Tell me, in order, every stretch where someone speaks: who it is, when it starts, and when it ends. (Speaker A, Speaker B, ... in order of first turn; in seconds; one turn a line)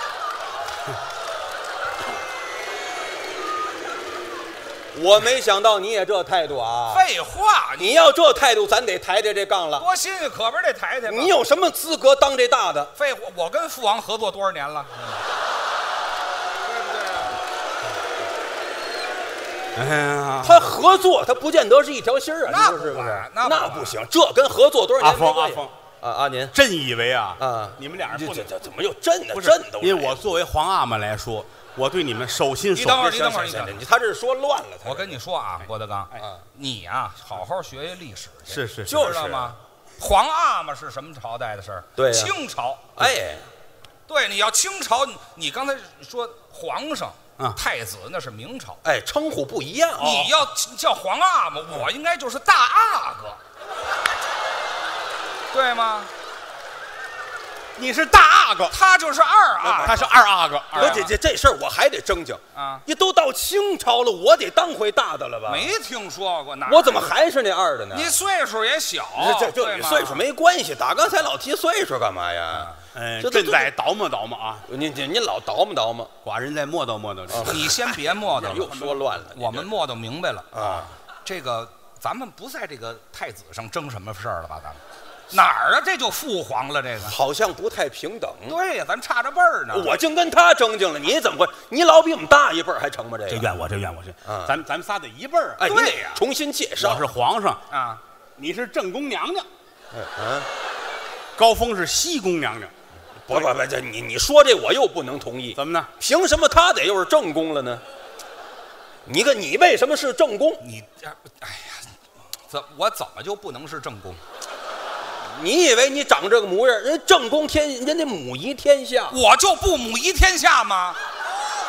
Speaker A: 4.9-7.0
Speaker B: 6.9-7.9
Speaker A: 7.8-9.8
Speaker B: 9.8-11.3
Speaker A: 11.1-12.9
Speaker B: 12.9-15.2
Speaker B: 16.6-17.4
Speaker C: 19.7-20.7
Speaker A: 20.4-26.5
Speaker B: 22.5-23.9
Speaker C: 25.0-25.7
Speaker C: 26.5-28.5
Speaker A: 27.4-30.2
Speaker C: 29.3-33.2
Speaker B: 32.7-33.8
Speaker A: 33.0-35.2
Speaker B: 34.8-43.1
Speaker C: 38.5-39.1
Speaker A: 38.9-39.5
Speaker A: 42.0-42.4
Speaker A: 43.0-43.5
Speaker B: 44.1-48.8
Speaker A: 48.8-50.2
Speaker B: 50.0-53.4
Speaker C: 50.0-50.3
Speaker B: 55.5-56.1
Speaker C: 57.7-58.8
Speaker B: 58.7-60.1
Speaker A: 59.6-60.0
Speaker C: 59.8-61.1
Speaker B: 60.7-61.1
Speaker A: 60.7-65.7
Speaker B: 62.5-62.8
Speaker B: 65.5-67.1
Speaker A: 66.7-68.2
Speaker B: 67.9-70.2
Speaker A: 69.2-73.7
Speaker C: 72.9-74.7
Speaker A: 74.7-76.1
Speaker C: 76.2-77.6
Speaker A: 77.3-79.7
Speaker B: 77.3-87.2
Speaker A: 80.5-80.9
Speaker A: 87.0-88.6
Speaker B: 88.5-90.0
Speaker A: 89.7-93.5
Speaker C: 93.3-95.7
Speaker A: 94.2-94.5
Speaker A: 95.6-97.1
Speaker B: 95.7-96.2
Speaker C: 96.8-97.6
Speaker B: 97.7-98.0
Speaker C: 98.4-99.5
Speaker A: 99.9-100.5
Speaker C: 101.3-102.7
Speaker A: 103.3-107.8
Speaker C: 105.5-105.9
Speaker A: 109.0-110.6
Speaker B: 110.6-111.9
Speaker B: 112.5-114.2
Speaker A: 115.3-119.2
Speaker B: 119.1-121.0